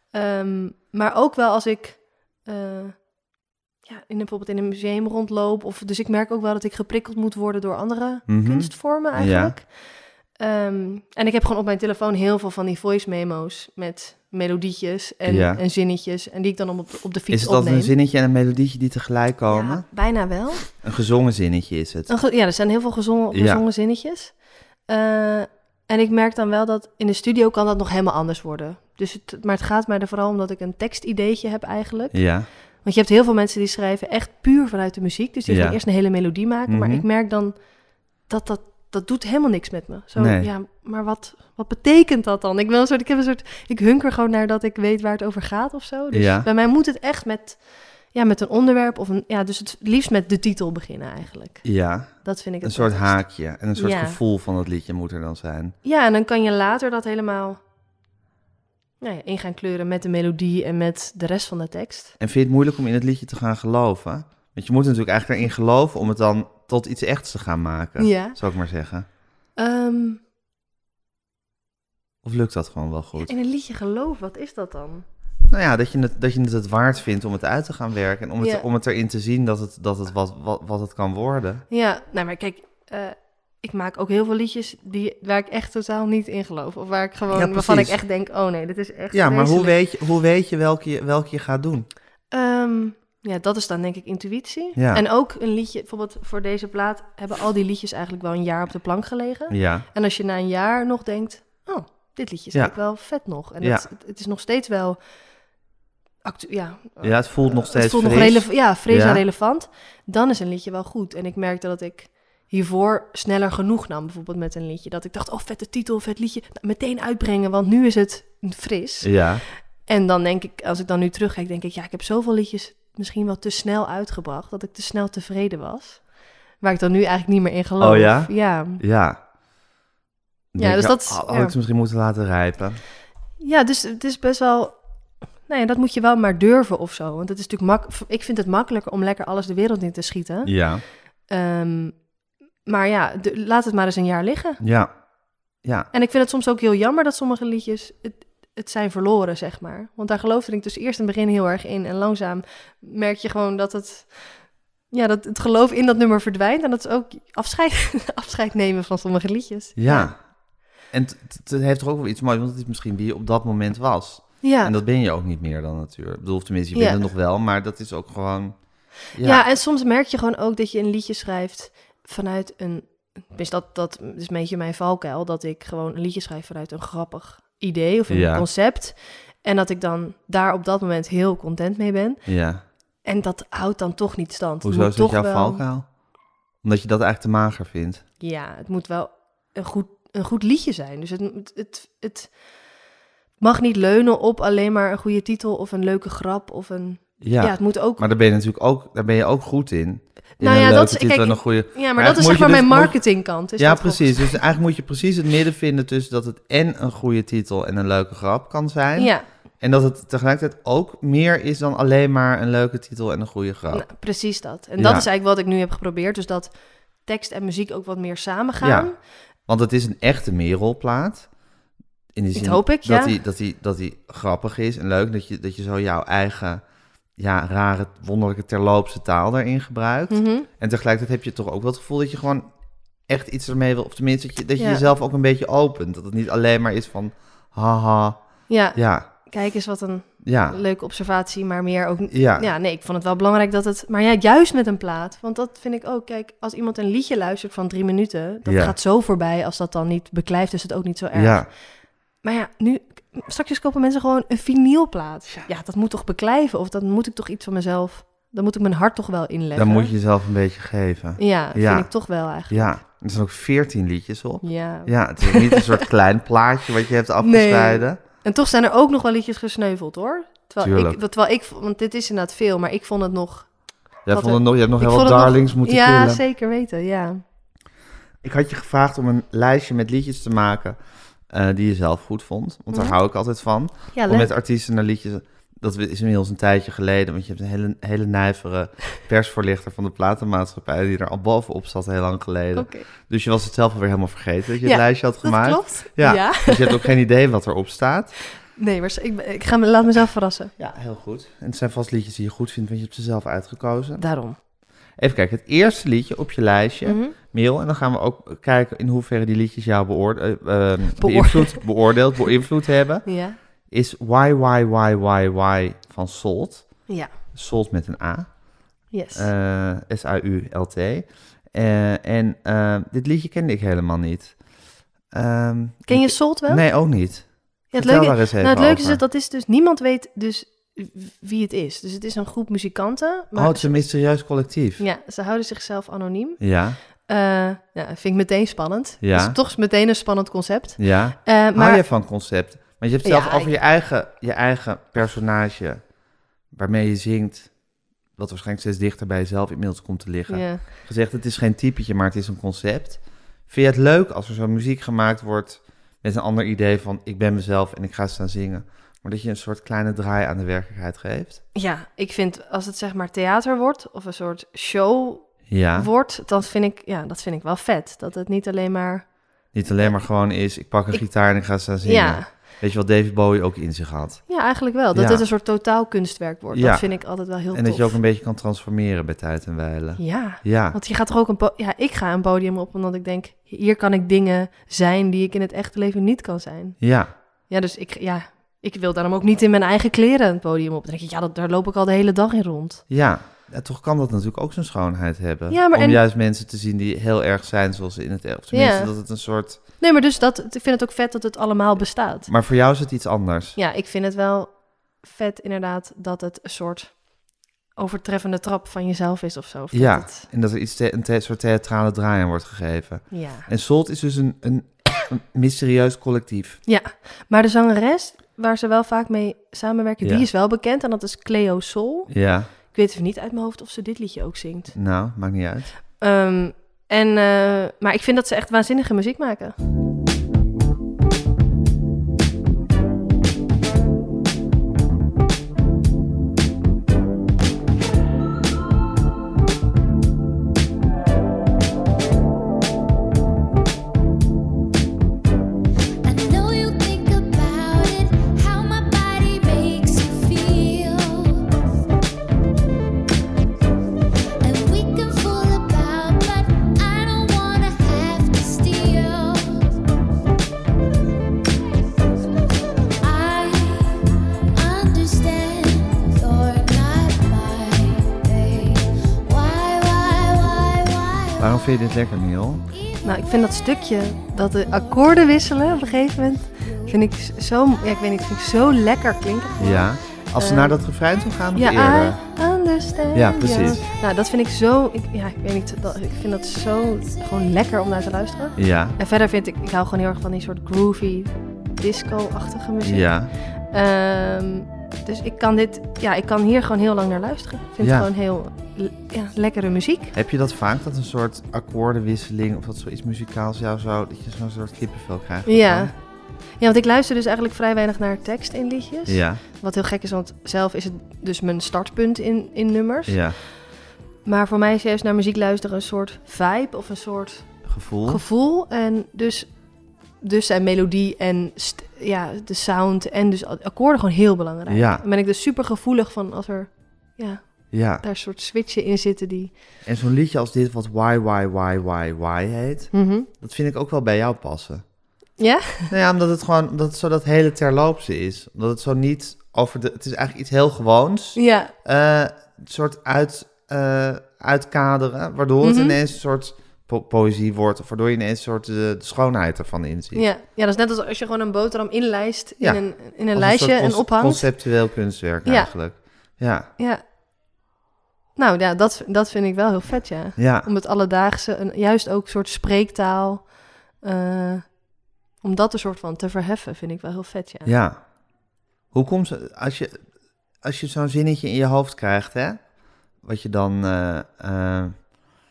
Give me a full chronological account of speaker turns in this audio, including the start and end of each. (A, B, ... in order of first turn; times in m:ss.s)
0:00.1-0:03.0 A
0:03.8-0:09.7 A
0:08.3-0:09.5 B
0:10.4-0:17.9 A
0:15.2-0:15.6 B
0:17.3-0:19.9 B
0:19.5-0:20.7 A
0:20.7-0:22.1 B
0:22.1-0:24.4 A
0:23.3-0:23.6 B
0:24.9-0:32.2 A
0:32.1-0:32.5 B
0:32.8-0:37.6 A
0:35.5-0:35.8 B
0:36.7-0:37.0 B
0:38.3-0:53.2 A
0:40.2-0:40.5 B
0:46.1-0:46.5 B
0:51.6-0:55.8 B
0:53.8-0:54.2 A
0:55.8-0:57.6 A
0:59.0-1:02.1 A
1:02.2-1:09.1 B
1:08.0-1:08.4 A
1:09.6-1:10.2 A
1:12.2-1:13.3 B
1:13.2-1:15.0 A
1:15.5-1:21.6 B
1:18.4-1:18.7 A
1:21.7-1:29.8 A
1:27.3-1:28.0 B
1:29.1-1:31.9 B
1:32.3-1:45.0 A
1:34.8-1:35.0 B
1:39.5-1:39.9 B
1:42.5-1:42.8 B
1:43.6-1:43.9 B
1:46.2-1:59.2 A
1:47.0-1:49.2 B
1:59.0-1:59.4 B
1:59.8-2:06.1 A
2:06.6-2:08.8 A
2:07.8-2:09.2 B
2:10.5-2:12.8 B
2:10.6-2:11.6 A
2:13.4-2:14.8 A
2:15.5-2:20.5 A
2:20.4-2:20.8 B
2:21.3-2:22.0 A
2:22.7-2:24.6 A
2:24.6-2:24.9 B
2:25.6-2:25.9 B
2:25.9-2:34.4 A
2:34.9-2:40.1 A
2:39.8-2:40.2 B
2:40.9-2:48.6 B
2:44.4-2:44.7 A
2:46.8-2:47.0 A
2:49.1-2:49.4 B
2:49.2-3:02.2 A
2:58.1-2:58.5 B
3:02.3-3:02.6 B
3:03.0-3:05.6 A
3:04.6-3:05.9 B
3:06.6-3:08.0 B
3:08.2-3:12.3 A
3:13.4-3:18.0 A
3:17.2-3:33.9 B
3:20.4-3:24.4 A
3:29.0-3:29.3 A
3:33.7-3:39.0 A
3:34.8-3:35.1 B
3:38.6-3:38.9 B
3:39.5-3:41.3 B
3:42.2-3:46.6 B
3:42.3-3:43.2 A
3:47.2-3:52.5 B
3:50.1-3:50.5 A
3:53.1-3:59.1 B
3:54.6-3:54.9 A
3:58.5-4:11.5 A
4:00.2-4:00.6 B
4:02.1-4:02.5 B
4:08.4-4:08.8 B
4:11.1-4:11.5 B
4:12.2-4:19.9 A
4:19.6-4:21.9 B
4:21.2-4:22.8 A
4:22.5-4:28.0 B
4:24.4-4:25.9 A
4:27.2-4:33.5 A
4:30.6-4:31.0 B
4:34.1-4:36.2 B
4:34.1-4:37.2 A
4:38.2-4:40.8 B
4:41.3-4:58.1 B
4:42.7-4:43.0 A
4:43.9-4:44.3 A
4:52.6-4:52.9 A
4:54.6-4:56.9 A
4:58.6-5:00.5 A
5:00.6-5:04.0 B
5:04.0-5:04.4 A
5:05.0-5:13.1 B
5:06.8-5:07.2 A
5:11.0-5:11.6 A
5:13.1-5:13.4 A
5:13.7-5:16.8 B
5:17.3-5:18.4 B
5:18.9-5:19.3 A
5:19.1-5:24.4 B
5:25.1-5:29.0 B
5:25.9-5:26.6 A
5:27.7-5:33.7 A
5:33.4-5:34.8 B
5:34.8-5:36.4 A
5:36.4-5:36.8 B
5:37.0-5:41.8 A
5:39.0-5:39.4 B
5:40.8-5:45.9 B
5:43.0-5:43.6 A
5:46.5-5:47.6 B
5:48.2-6:01.4 B
5:50.3-5:50.6 A
6:01.6-6:10.0 A
6:05.5-6:05.9 B
6:09.5-6:14.4 B
6:11.8-6:12.3 A
6:14.3-6:18.0 A
6:14.9-6:15.2 B
6:16.5-6:20.8 B
6:20.0-6:26.8 A
6:26.8-6:27.1 B
6:27.5-6:32.8 A
6:32.9-6:39.6 B
6:35.5-6:36.0 A
6:38.5-6:38.9 A
6:39.8-6:42.3 A
6:42.3-6:43.6 B
6:43.6-6:47.1 A
6:47.8-6:50.3 A
6:49.7-6:56.6 B
6:53.1-6:53.5 A
6:56.7-7:04.7 A
7:02.1-7:02.5 B
7:04.7-7:05.7 B
7:06.0-7:09.6 A
7:26.1-7:31.3 C
7:34.4-7:39.5 C
7:43.0-7:43.9 C
7:44.6-7:51.3 C
7:51.4-7:52.6 B
7:53.0-8:00.8 A
7:59.6-8:02.2 B
8:01.5-8:13.1 A
8:03.1-8:03.8 B
8:08.6-8:09.0 B
8:12.8-8:13.3 B
8:13.7-8:20.2 A
8:17.8-8:18.1 B
8:20.2-8:25.9 B
8:25.5-8:25.9 A
8:26.6-8:33.2 A
8:29.1-8:29.4 B
8:33.1-8:33.4 B
8:34.2-8:39.5 A
8:37.7-8:38.2 B
8:40.2-8:49.5 A
8:44.7-8:45.0 B
8:47.7-8:48.0 B
8:49.8-8:54.9 B
8:52.9-8:53.3 A
8:55.4-8:55.9 A
8:55.9-9:10.3 B
9:01.4-9:01.7 A
9:05.6-9:06.0 A
9:10.1-9:14.5 A
9:12.6-9:16.7 B
9:15.4-9:15.7 A
9:18.4-9:24.8 A
9:20.4-9:20.7 B
9:25.4-9:27.7 A
9:27.6-9:28.0 B
9:28.9-9:30.0 B
9:30.6-9:32.7 B
9:33.2-9:35.1 B